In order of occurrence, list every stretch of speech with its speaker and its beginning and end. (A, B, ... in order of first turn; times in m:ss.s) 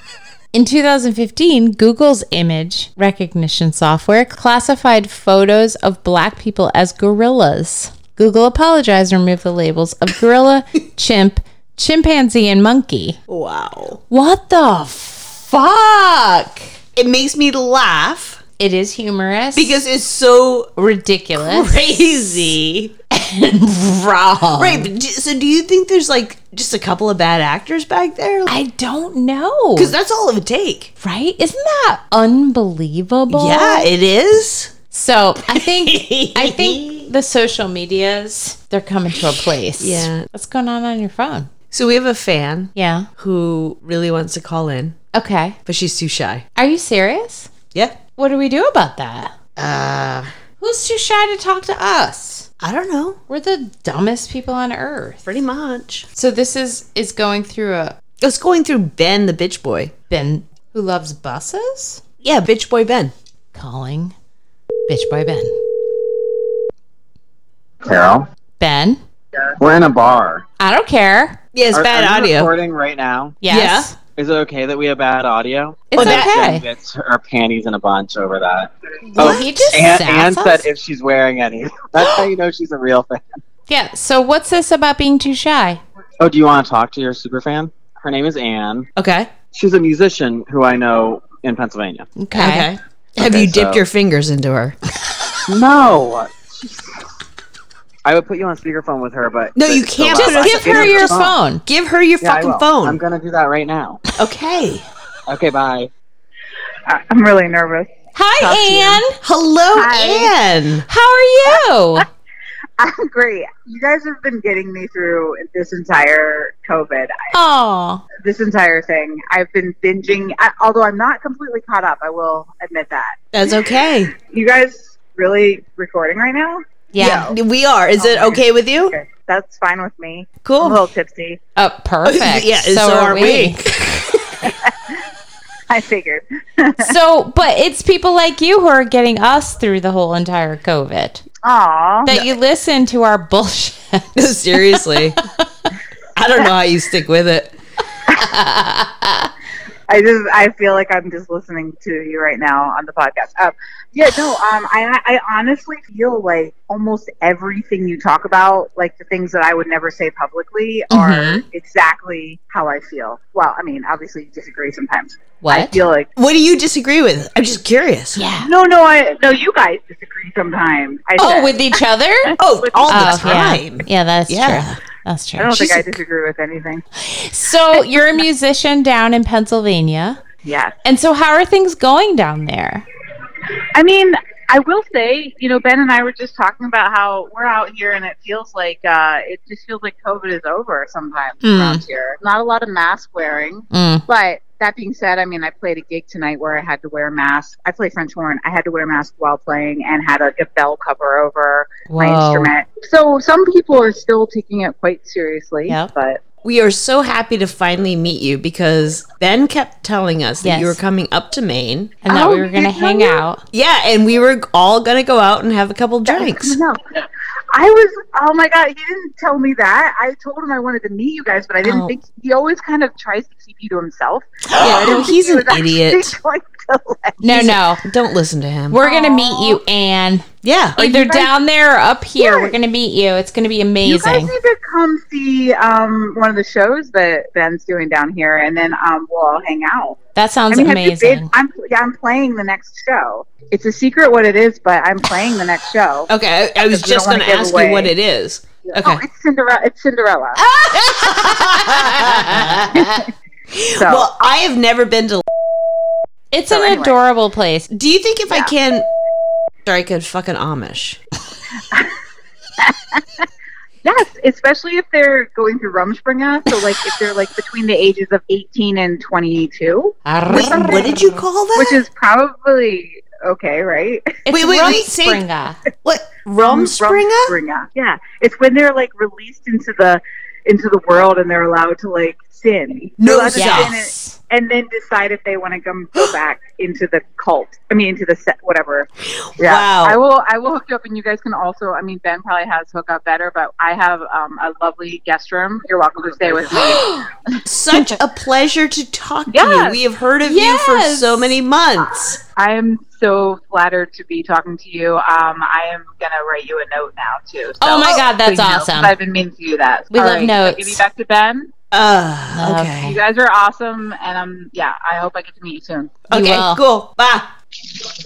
0:00.5-0:13.2 A
0:13.3-0:14.0 B
0:14.1-0:16.7 A
0:17.0-0:18.4 B
0:18.6-0:19.8 A
0:19.5-0:20.7 B
0:20.8-0:22.2 A
0:21.4-0:22.9 B
0:23.1-0:24.9 A
0:24.6-0:28.6 B
0:28.5-0:29.9 A
0:29.8-0:30.9 B
0:31.0-0:33.9 A
0:33.3-0:34.7 B
0:34.9-0:41.5 A
0:35.5-0:37.1 B
0:39.8-0:40.3 B
0:41.7-0:45.0 B
0:42.7-0:43.1 A
0:45.1-0:45.6 A
0:45.6-0:46.4 B
0:46.6-0:47.5 A
0:47.7-0:48.0 B
0:48.2-0:49.4 A
0:49.6-0:50.3 B
0:50.6-0:52.5 A
0:52.6-0:53.2 B
0:53.3-0:55.3 A
0:55.2-0:56.1 B
0:56.1-0:58.0 A
0:58.2-0:59.9 B
1:00.1-1:02.0 A
1:02.2-1:03.1 B
1:03.5-1:04.1 A
1:04.9-1:05.6 A
1:07.8-1:08.2 C
1:08.6-1:09.0 A
1:09.6-1:10.4 C
1:10.6-1:11.4 A
1:11.5-1:12.5 B
1:11.7-1:13.4 C
1:13.4-1:14.0 A
1:13.5-1:13.9 B
1:14.2-1:23.4 C
1:15.9-1:16.6 A
1:15.9-1:16.3 B
1:19.1-1:19.5 B
1:19.2-1:20.7 A
1:23.7-1:25.8 A
1:26.2-1:28.9 C
1:29.0-1:29.3 B
1:29.5-1:32.1 C
1:32.2-1:32.7 A
1:32.3-1:34.8 B
1:33.2-1:33.8 C
1:35.5-1:36.9 C
1:38.0-1:41.3 C
1:39.5-1:43.0 B
1:40.1-1:41.6 A
1:42.2-1:44.0 C
1:44.2-1:44.9 B
1:45.3-1:45.9 C
1:46.9-1:49.0 D
1:48.1-1:49.2 A
1:49.2-1:50.8 B
1:49.7-1:50.3 D
1:50.9-1:52.0 A
1:52.8-1:57.3 D
1:57.3-1:58.0 A
1:58.2-2:03.3 D
2:03.3-2:04.1 B
2:04.1-2:07.3 D
2:06.9-2:07.3 A
2:07.0-2:09.0 B
2:08.0-2:11.4 D
2:10.4-2:10.8 B
2:11.6-2:13.6 A
2:12.0-2:14.5 B
2:14.4-2:15.0 D
2:15.7-2:16.9 D
2:16.8-2:21.2 A
2:21.4-2:22.1 D
2:22.0-2:25.0 A
2:24.2-2:25.2 B
2:26.2-2:27.5 B
2:28.1-2:29.3 A
2:29.9-2:46.1 D
2:40.9-2:41.4 A
2:45.4-2:45.8 A
2:46.2-2:48.2 B
2:48.1-2:48.5 A
2:48.4-2:51.8 D
2:51.2-2:52.4 A
2:52.4-2:54.8 B
2:52.6-2:53.4 D
2:52.9-2:56.0 A
2:55.4-2:56.8 D
2:57.0-3:00.2 A
2:57.8-2:58.2 D
3:00.4-3:00.7 D
3:00.8-3:02.8 A
3:03.7-3:26.2 D
3:11.4-3:11.8 A
3:13.7-3:14.0 A
3:21.9-3:22.5 A
3:26.4-3:32.0 B
3:30.4-3:30.8 A
3:32.0-3:33.4 A
3:32.1-3:33.2 D
3:33.5-3:36.6 B
3:36.0-3:37.0 D
3:37.5-3:47.2 D
3:41.6-3:41.9 B
3:44.6-3:46.2 B
3:47.2-3:47.8 A
3:47.2-3:48.8 B
3:48.7-3:54.3 A
3:48.8-3:49.6 D
3:50.4-3:50.8 B
3:50.8-3:51.3 D
3:52.2-3:52.5 D
3:53.8-4:00.0 D
4:00.2-4:01.3 A
4:00.5-4:06.1 D
4:06.1-4:09.0 B
4:06.6-4:07.9 D
4:08.6-4:10.4 D
4:10.4-4:13.0 A
4:10.7-4:12.8 B
4:12.7-4:13.1 D
4:13.5-4:15.2 B
4:13.7-4:14.1 D
4:16.3-4:17.7 A
4:16.5-4:17.0 D
4:17.7-4:18.8 B
4:19.6-4:21.0 B
4:22.6-4:23.2 D
4:23.8-4:30.8 D
4:30.0-4:31.2 A
4:30.3-4:31.8 B
4:31.5-4:34.8 D
4:34.2-4:35.6 A
4:34.3-4:35.2 B
4:35.8-4:37.4 B
4:36.4-4:48.9 D
4:43.0-4:43.7 B
4:43.3-4:44.2 A
4:49.2-4:50.0 B
4:49.4-4:57.0 D
4:56.5-4:57.1 A
4:57.4-5:02.2 B
4:59.3-4:59.8 D
5:00.2-5:01.4 A
5:02.4-5:11.5 D
5:07.6-5:08.9 A
5:09.9-5:10.8 A
5:11.7-5:13.0 B
5:12.3-5:13.0 A
5:12.8-5:16.0 D
5:16.1-5:17.3 B
5:16.1-5:16.6 A